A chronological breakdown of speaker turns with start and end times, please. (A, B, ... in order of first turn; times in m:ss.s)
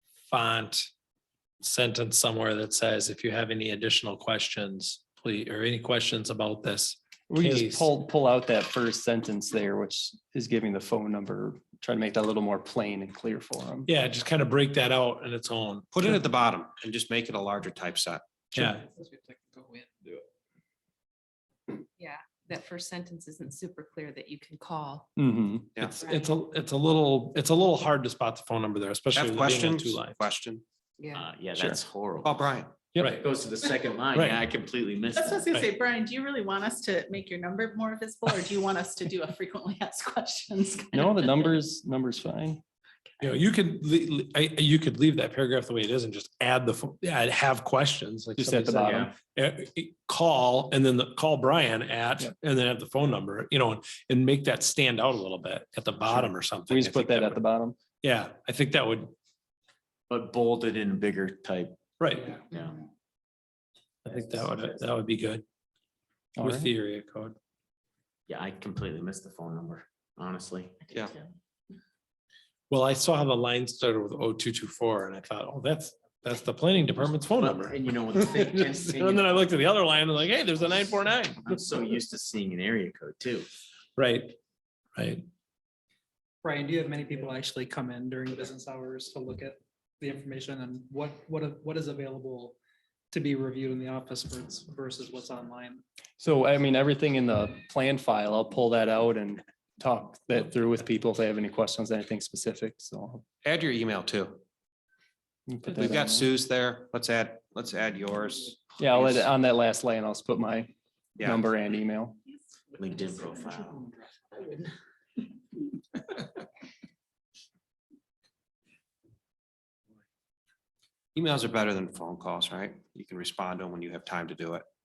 0:00.3-0:00.9 A
0:01.6-0:07.9 A
0:07.3-0:13.9 B
0:13.9-0:16.2 A
0:15.9-0:18.2 C
0:18.5-0:18.8 A
0:22.0-0:25.1 D
0:25.2-0:25.7 B
0:26.0-0:30.2 A
0:26.0-0:26.3 D
0:29.1-0:30.6 C
0:31.0-0:31.2 D
0:31.1-0:32.4 E
0:32.2-0:32.7 C
0:33.0-0:33.2 A
0:33.0-0:35.5 E
0:34.1-0:34.4 A
0:35.2-0:41.2 F
0:40.9-0:42.6 B
0:43.2-0:57.4 A
0:48.4-0:49.1 B
0:48.8-0:49.1 E
0:56.2-0:57.7 B
0:58.0-0:59.1 A
1:00.1-1:01.8 E
1:02.0-1:02.4 A
1:02.5-1:02.8 E
1:04.0-1:05.4 A
1:06.4-1:06.7 B
1:06.4-1:07.4 A
1:08.3-1:10.8 E
1:10.9-1:11.2 F
1:12.7-1:21.6 A
1:17.0-1:19.5 E
1:21.4-1:23.5 E
1:24.0-1:24.4 A
1:25.0-1:25.2 A
1:26.4-1:32.6 G
1:33.1-1:35.8 G
1:36.2-1:43.2 B
1:43.4-1:44.4 C
1:45.5-1:46.3 B
1:45.7-1:49.2 C
1:48.8-1:52.2 B
1:52.8-1:53.9 E
1:54.3-1:54.7 F
2:01.1-2:04.6 C